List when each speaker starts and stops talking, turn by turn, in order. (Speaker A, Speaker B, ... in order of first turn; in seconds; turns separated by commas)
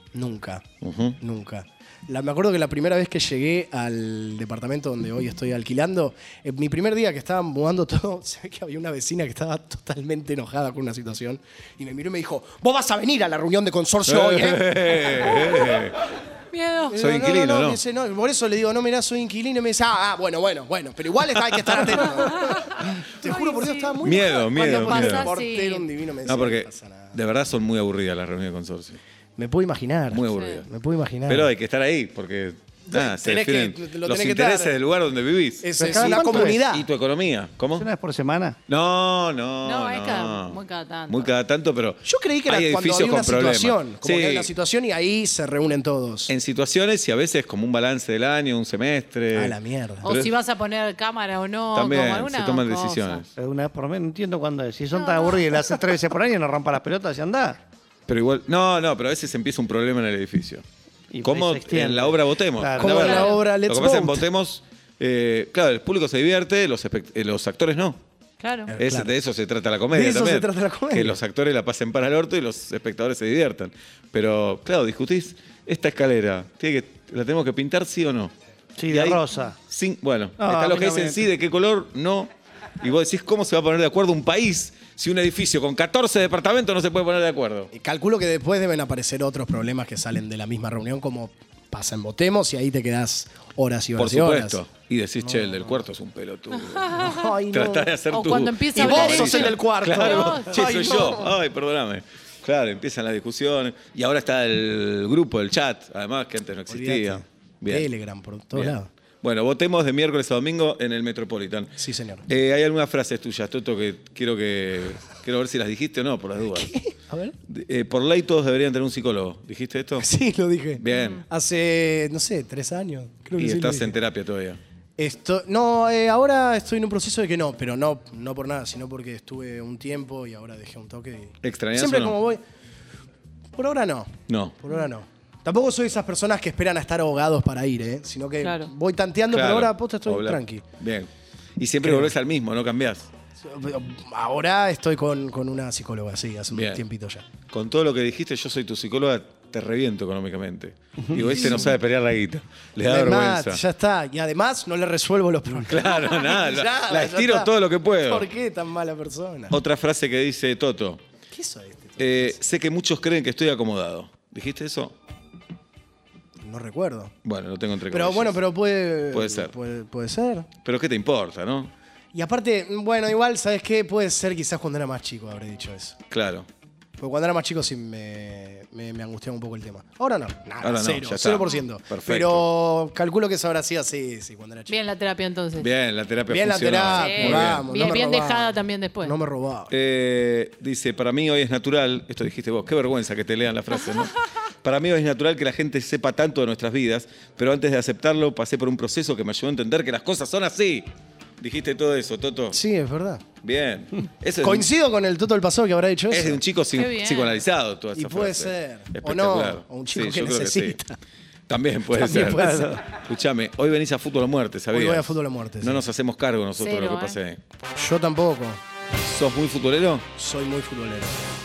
Speaker A: 0.1-0.6, Speaker B: 0.8-1.2, Speaker A: 1.2-15.3, Speaker B: 14.1-16.0, Speaker C: 16.5-17.0, Speaker A: 16.9-27.1, Speaker B: 16.9-17.8, Speaker C: 23.2-23.9, Speaker B: 24.0-25.3, Speaker C: 24.5-25.9, Speaker B: 26.2-29.0, Speaker A: 29.4-31.5, Speaker B: 30.1-30.7, Speaker C: 30.4-30.6, Speaker B: 31.3-37.9, Speaker A: 32.9-34.8, Speaker A: 35.6-36.9, Speaker D: 35.8-36.6, Speaker D: 37.7-38.6, Speaker B: 38.7-44.5, Speaker C: 39.6-41.3, Speaker A: 42.0-46.3, Speaker B: 46.3-50.3, Speaker A: 49.3-50.1, Speaker C: 50.0-53.2, Speaker B: 51.7-53.3, Speaker D: 53.4-57.6, Speaker C: 54.9-55.7, Speaker B: 58.1-60.6, Speaker D: 61.1-63.2, Speaker B: 61.2-68.0, Speaker A: 62.8-64.2, Speaker C: 62.9-63.4, Speaker C: 68.4-68.7, Speaker A: 68.7-69.2, Speaker B: 68.8-78.3, Speaker A: 69.9-71.2, Speaker D: 78.8-79.6, Speaker B: 78.9-82.3, Speaker D: 80.4-81.2, Speaker B: 82.8-87.7, Speaker A: 87.7-94.6, Speaker B: 94.0-107.9, Speaker A: 95.2-95.8, Speaker C: 96.6-97.2, Speaker A: 96.9-97.9, Speaker C: 98.1-100.6, Speaker A: 98.8-101.3, Speaker A: 106.7-108.9, Speaker B: 108.5-111.7, Speaker A: 111.8-112.3, Speaker B: 112.3-116.7, Speaker A: 116.5-117.4, Speaker B: 117.5-120.1, Speaker A: 120.0-124.0, Speaker B: 120.8-121.2, Speaker C: 120.9-121.2, Speaker B: 123.4-124.6, Speaker A: 125.0-132.4, Speaker B: 131.4-132.2, Speaker A: 133.6-140.6, Speaker B: 134.3-134.5, Speaker C: 138.4-138.7, Speaker B: 139.3-143.1, Speaker A: 141.8-142.1, Speaker A: 143.4-147.2, Speaker B: 146.5-146.8, Speaker B: 147.5-153.6, Speaker A: 151.2-151.7, Speaker A: 152.8-159.6, Speaker B: 155.6-158.3, Speaker B: 159.5-161.0, Speaker A: 161.3-162.4, Speaker B: 162.0-164.9, Speaker A: 166.4-167.1, Speaker B: 167.2-168.4, Speaker A: 167.9-170.5, Speaker B: 169.1-169.5, Speaker B: 170.6-171.7, Speaker A: 172.1-176.0, Speaker B: 176.1-176.5, Speaker A: 177.0-184.8, Speaker B: 180.6-182.5, Speaker C: 184.7-185.7, Speaker B: 185.6-187.7, Speaker A: 186.3-189.7, Speaker C: 187.0-189.1, Speaker B: 189.7-202.6, Speaker A: 202.5-203.2, Speaker B: 203.4-204.7, Speaker A: 204.4-206.4, Speaker B: 206.1-210.8, Speaker C: 206.8-207.4, Speaker A: 207.9-211.0, Speaker B: 211.5-217.4, Speaker A: 211.9-212.8, Speaker A: 214.7-215.8, Speaker C: 216.6-217.2, Speaker A: 217.8-218.6, Speaker B: 219.0-220.1, Speaker A: 220.2-221.2